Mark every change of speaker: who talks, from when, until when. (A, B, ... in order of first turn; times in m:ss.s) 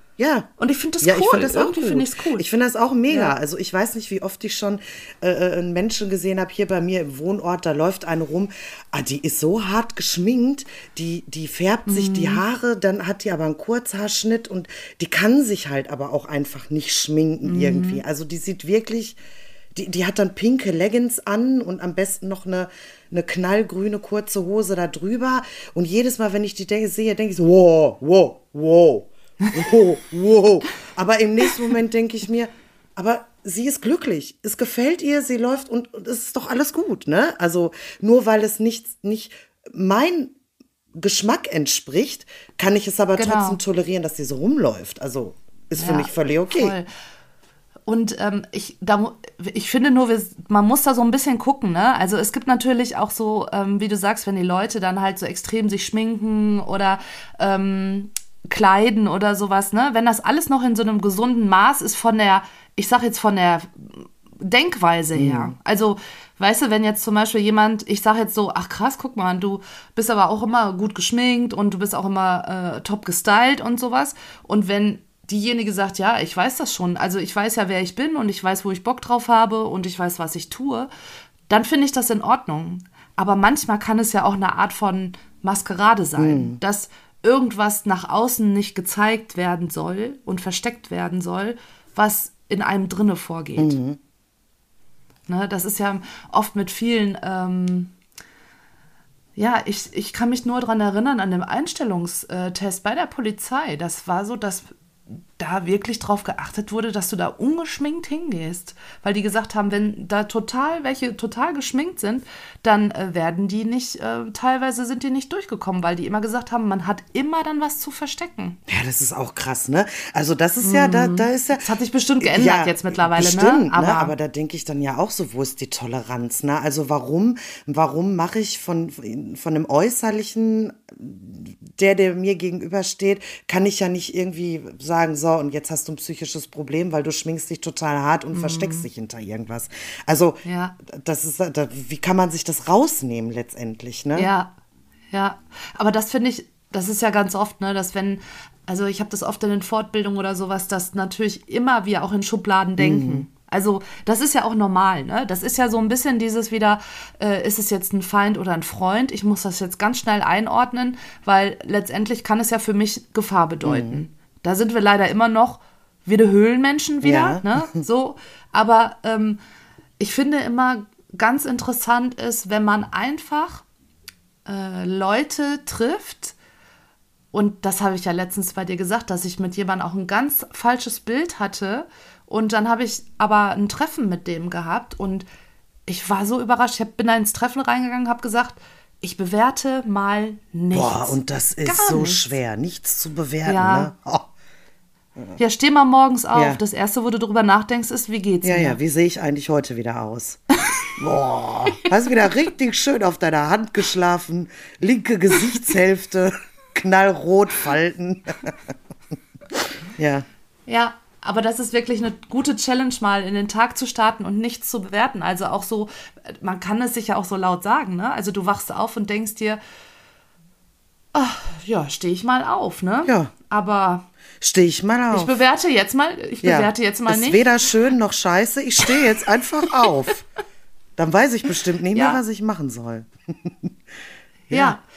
0:00.2-0:19.2 A
0:00.6-0:02.4 B
0:03.1-0:03.3 B
0:11.9-0:12.4 B
0:17.4-0:18.0 B
0:19.7-0:40.3 A
0:41.0-0:46.8 A
0:43.2-0:43.6 B
0:45.8-0:46.9 B
0:47.9-1:20.9 B
1:05.1-1:05.5 A
1:21.5-1:33.8 B
1:26.2-1:26.6 A
1:33.6-1:34.0 A
1:35.3-1:37.9 B
1:39.4-1:44.7 B
1:45.4-1:58.6 B
1:58.7-2:01.6 A
2:00.6-2:04.1 B
2:02.2-2:24.3 A
2:18.3-2:18.9 B
2:20.4-2:20.8 B
2:24.1-2:24.5 B
2:25.1-2:49.4 B
2:32.8-2:33.2 A
2:43.6-2:44.0 A
2:47.0-2:47.7 A
2:50.0-2:53.6 B
2:54.4-2:56.3 B
2:57.3-3:05.3 B
3:05.9-3:12.2 B
3:10.7-3:14.3 A
3:13.4-3:13.9 B
3:15.4-3:18.8 B
3:16.3-3:16.6 A
3:18.4-3:20.4 A
3:20.9-3:28.7 A
3:30.0-3:30.2 A
3:30.7-3:39.6 B
3:41.1-3:44.1 B
3:43.0-3:43.3 A
3:44.4-3:45.3 A
3:45.1-3:47.5 B
3:46.4-3:50.2 A
3:51.0-3:53.7 A
3:51.9-3:52.2 B
3:54.5-3:54.8 A
3:54.5-3:54.8 B